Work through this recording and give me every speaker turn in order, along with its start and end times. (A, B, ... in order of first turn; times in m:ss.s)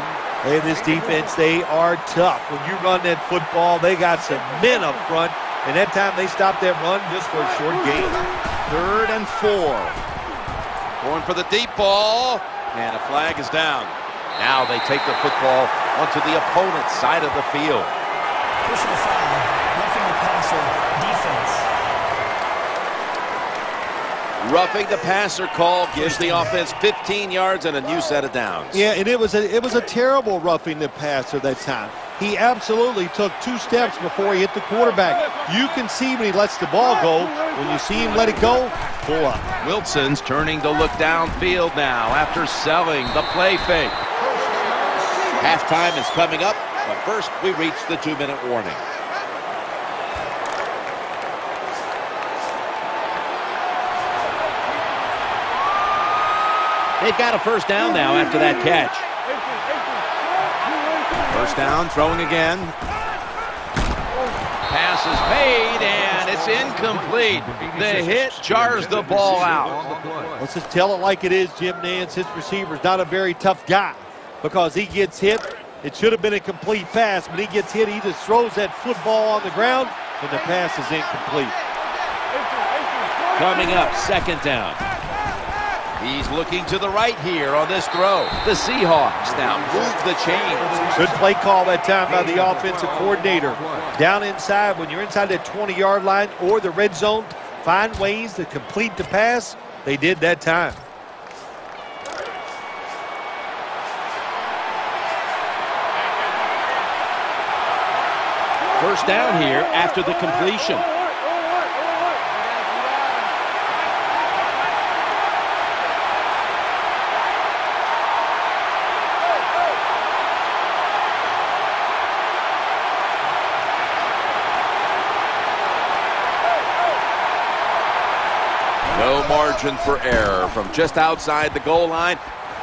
0:00.4-0:08.2 A
0:08.7-0:10.0 B
0:11.0-0:18.0 B
0:18.7-0:21.7 C
0:24.4-0:28.8 B
0:26.1-0:26.5 C
0:28.7-0:39.4 A
0:39.6-0:44.0 B
0:45.4-0:48.8 B
0:57.0-0:59.1 B
1:01.3-1:02.8 B
1:04.7-1:09.9 B
1:10.4-1:21.6 A
1:23.3-1:24.8 B
1:26.0-1:30.9 B
1:31.0-1:40.8 A
1:48.7-1:50.9 B
2:08.9-2:12.2 B